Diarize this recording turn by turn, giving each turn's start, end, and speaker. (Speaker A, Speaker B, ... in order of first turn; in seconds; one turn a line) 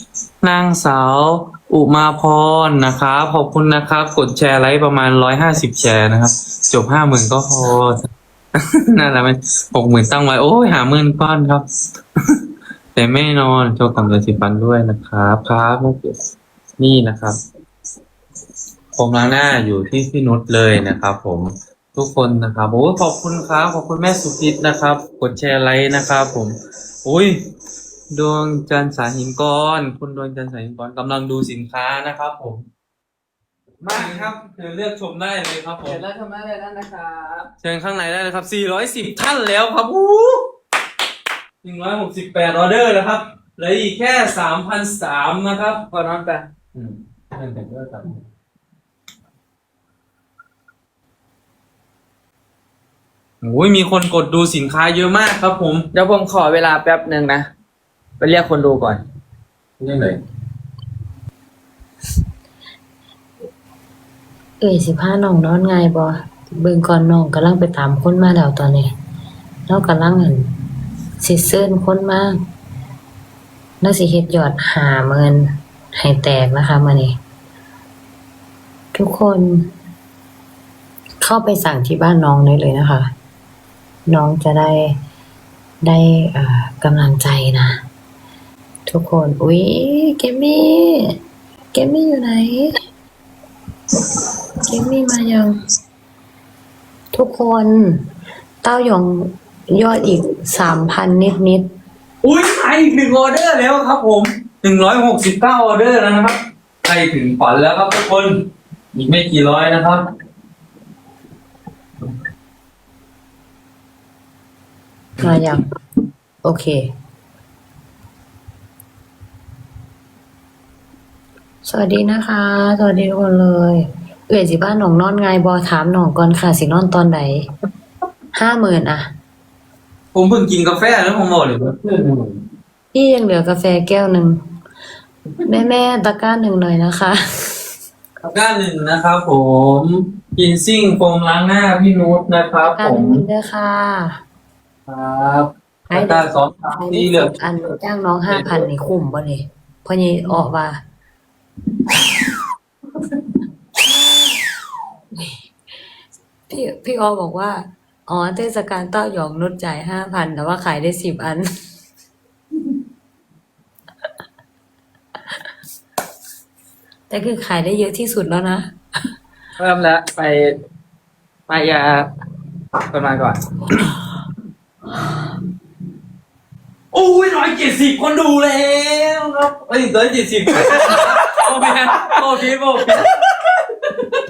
Speaker A: 0.4-8.0
Speaker A: 8.9-11.7
Speaker A: 12.9-16.2
Speaker A: 16.8-17.4
Speaker A: 19.0-27.4
Speaker A: 28.1-32.6
Speaker B: 33.8-34.3
Speaker A: 33.9-36.0
Speaker B: 35.9-37.5
Speaker A: 37.6-40.4
Speaker A: 41.6-45.8
Speaker B: 45.9-46.5
Speaker A: 46.7-48.2
Speaker A: 53.4-55.9
Speaker B: 55.9-57.5
Speaker B: 58.2-59.0
Speaker A: 59.8-60.2
Speaker C: 64.6-68.9
Speaker C: 69.7-70.5
Speaker C: 71.2-72.4
Speaker C: 73.8-77.2
Speaker C: 78.9-79.7
Speaker C: 81.2-83.1
Speaker C: 84.1-85.0
Speaker C: 85.8-87.8
Speaker C: 88.9-91.2
Speaker C: 91.7-92.7
Speaker C: 94.7-95.6
Speaker C: 97.1-98.0
Speaker C: 98.6-101.7
Speaker A: 102.2-110.0
Speaker C: 115.2-115.6
Speaker C: 116.4-116.8
Speaker C: 121.7-127.5
Speaker C: 128.3-129.1
Speaker A: 130.1-132.4
Speaker C: 132.9-134.4
Speaker C: 135.4-137.6
Speaker A: 138.2-143.2
Speaker C: 142.6-144.2
Speaker B: 144.9-145.5
Speaker C: 145.9-146.2
Speaker A: 145.9-147.4
Speaker C: 146.7-150.8
Speaker A: 148.3-148.7
Speaker C: 156.5-161.5
Speaker C: 167.1-168.7
Speaker B: 169.6-170.6
Speaker B: 171.5-172.1
Speaker B: 172.9-173.4
Speaker A: 176.9-183.1
Speaker B: 180.7-181.1